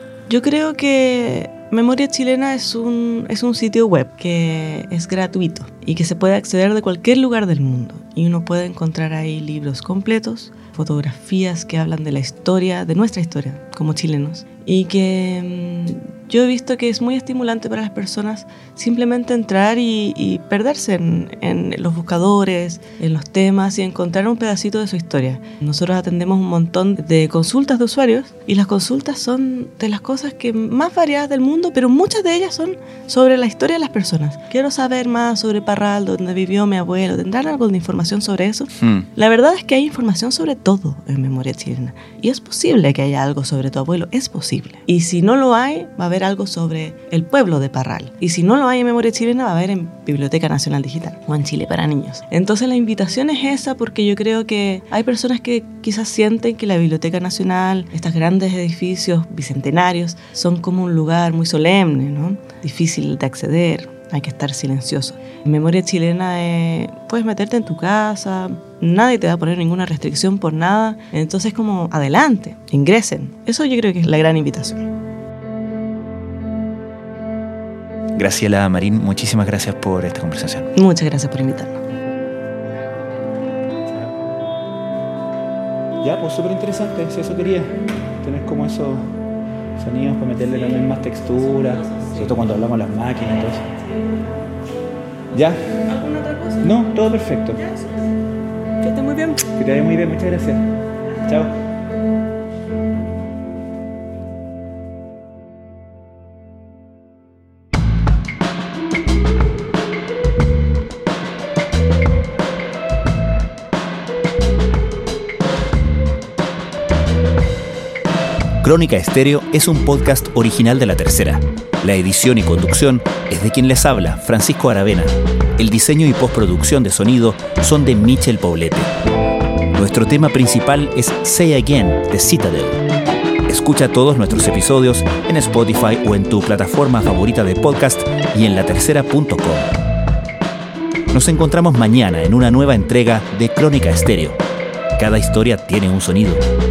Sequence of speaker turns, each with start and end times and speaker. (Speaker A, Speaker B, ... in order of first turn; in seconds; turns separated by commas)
Speaker A: 0.3-74.9, Speaker B: 38.8-39.1, Speaker B: 78.2-80.7, Speaker A: 80.8-81.8, Speaker B: 83.9-84.2, Speaker B: 86.0-89.1, Speaker B: 89.8-93.7, Speaker A: 91.8-92.1, Speaker B: 95.3-95.8, Speaker A: 95.8-96.7, Speaker B: 96.6-97.6, Speaker A: 97.7-98.0, Speaker A: 98.8-99.5, Speaker B: 99.5-100.6, Speaker B: 101.2-101.5, Speaker B: 118.6-128.9, Speaker B: 129.7-132.8, Speaker B: 133.5-139.7, Speaker B: 141.1-144.4, Speaker B: 145.0-146.4